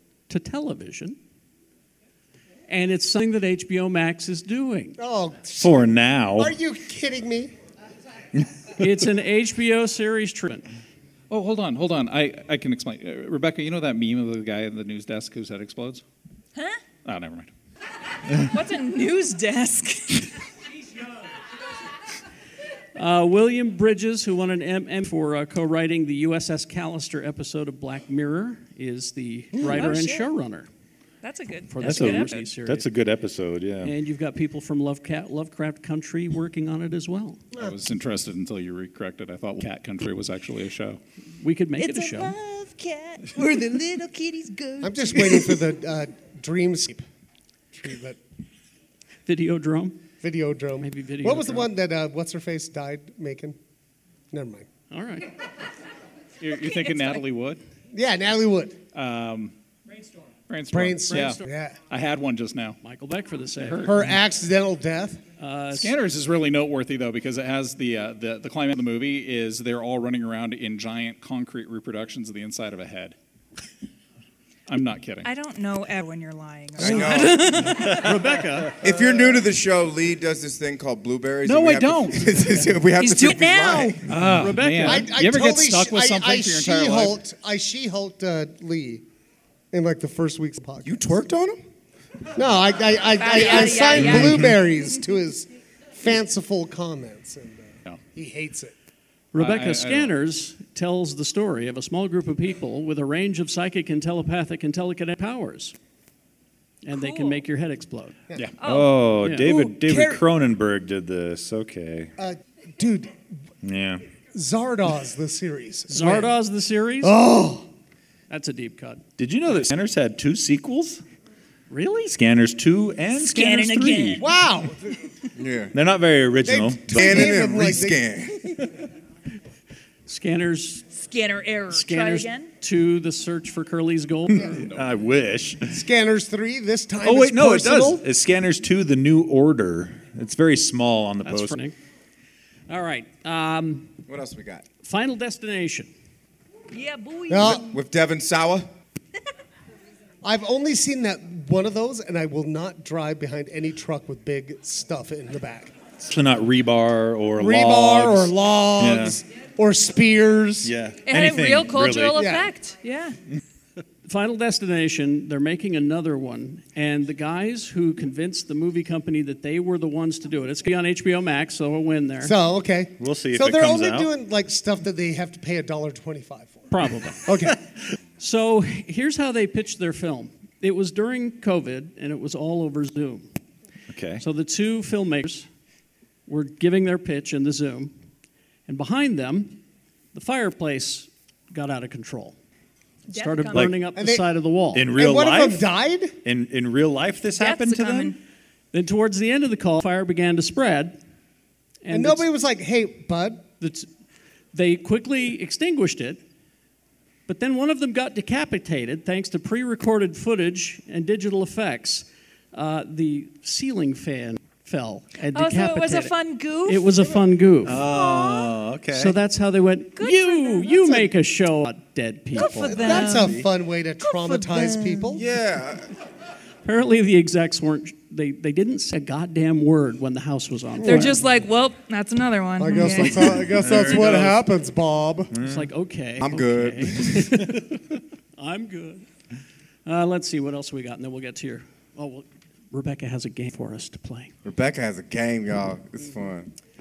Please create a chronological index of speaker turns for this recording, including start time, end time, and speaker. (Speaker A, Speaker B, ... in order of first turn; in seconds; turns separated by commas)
Speaker A: 0.3-1.2, Speaker A: 2.7-5.0, Speaker B: 5.0-7.5, Speaker C: 5.6-6.5, Speaker A: 8.8-10.7, Speaker D: 11.3-16.0, Speaker E: 16.5-16.8, Speaker D: 17.0-17.5, Speaker E: 18.4-20.3, Speaker A: 22.9-30.7, Speaker E: 29.6-30.3, Speaker E: 31.2-32.4, Speaker A: 31.7-32.9, Speaker C: 31.8-33.9, Speaker A: 33.8-37.4, Speaker D: 37.6-41.0, Speaker A: 41.4-42.3, Speaker E: 41.8-45.6, Speaker B: 44.8-47.0, Speaker B: 47.7-48.2, Speaker A: 49.2-50.0, Speaker B: 50.2-53.6, Speaker A: 50.8-51.7, Speaker B: 54.3-54.7, Speaker A: 54.9-55.3, Speaker D: 56.4-57.6, Speaker E: 56.6-57.2, Speaker B: 57.9-58.8, Speaker D: 58.9-59.5, Speaker D: 60.5-61.4, Speaker B: 60.7-61.8, Speaker A: 61.1-61.5, Speaker D: 61.9-62.8, Speaker A: 62.8-64.0, Speaker D: 63.6-63.9, Speaker B: 63.8-65.2, Speaker A: 65.4-65.9, Speaker D: 65.7-73.2, Speaker D: 74.7-75.3, Speaker E: 75.2-78.2, Speaker F: 76.8-77.7, Speaker A: 77.8-78.8, Speaker F: 78.8-84.0, Speaker D: 81.4-82.4, Speaker E: 83.0-84.0, Speaker D: 84.1-87.2, Speaker A: 84.2-85.1, Speaker B: 84.8-89.0, Speaker B: 89.7-91.2, Speaker F: 90.8-91.6, Speaker B: 92.3-98.7, Speaker E: 93.2-94.4, Speaker A: 99.3-105.7, Speaker D: 99.3-100.1, Speaker A: 106.8-108.2, Speaker E: 106.9-107.4, Speaker E: 108.6-109.0, Speaker C: 108.6-112.1, Speaker A: 109.2-109.5, Speaker B: 109.5-110.2, Speaker B: 112.2-113.2, Speaker C: 113.6-114.0, Speaker B: 114.3-116.3, Speaker A: 115.9-117.2, Speaker B: 117.0-117.7, Speaker A: 118.3-119.0, Speaker C: 119.2-121.0, Speaker A: 121.7-122.2, Speaker C: 122.1-124.2, Speaker E: 123.1-124.3, Speaker B: 124.2-125.0, Speaker F: 125.3-125.7, Speaker C: 125.7-127.3, Speaker B: 126.4-128.0, Speaker F: 126.9-128.6, Speaker A: 130.1-130.8, Speaker E: 130.9-132.5, Speaker A: 131.7-134.7, Speaker C: 134.4-135.8, Speaker B: 135.7-138.0, Speaker C: 137.0-141.6, Speaker A: 141.2-141.8, Speaker A: 142.7-143.9, Speaker F: 144.1-144.6, Speaker A: 144.8-145.9, Speaker E: 146.7-147.6, Speaker B: 147.3-147.7, Speaker F: 147.5-148.7, Speaker B: 150.2-155.7, Speaker C: 156.0-159.2, Speaker B: 157.4-160.7, Speaker C: 160.6-162.2, Speaker E: 161.0-163.2, Speaker B: 162.1-162.5, Speaker A: 164.0-172.3, Speaker B: 172.2-177.6, Speaker C: 173.0-174.1, Speaker A: 176.7-177.2, Speaker A: 178.2-183.2, Speaker C: 183.9-184.2, Speaker A: 184.2-185.5, Speaker A: 186.3-187.9, Speaker A: 188.7-189.6, Speaker A: 190.1-192.4, Speaker E: 193.1-193.8, Speaker A: 193.1-194.9, Speaker B: 193.9-194.2, Speaker C: 194.7-195.7, Speaker B: 194.9-196.2, Speaker C: 196.2-198.1, Speaker E: 197.3-198.2, Speaker A: 198.7-201.0, Speaker A: 201.8-202.2, Speaker B: 201.9-203.4, Speaker A: 203.6-203.9, Speaker A: 204.5-206.2, Speaker A: 207.3-216.1, Speaker E: 215.3-217.2, Speaker A: 216.7-217.8, Speaker C: 217.6-219.2, Speaker E: 217.8-218.5, Speaker A: 218.9-223.0, Speaker E: 219.9-221.0, Speaker E: 222.3-223.4, Speaker B: 222.5-225.2, Speaker E: 224.0-225.2, Speaker F: 225.2-225.9, Speaker A: 226.6-231.2, Speaker E: 230.8-233.5, Speaker B: 232.6-235.3, Speaker C: 233.6-234.3, Speaker C: 235.3-235.7, Speaker A: 235.4-239.1, Speaker F: 236.2-237.3, Speaker A: 239.8-244.3, Speaker F: 244.4-246.5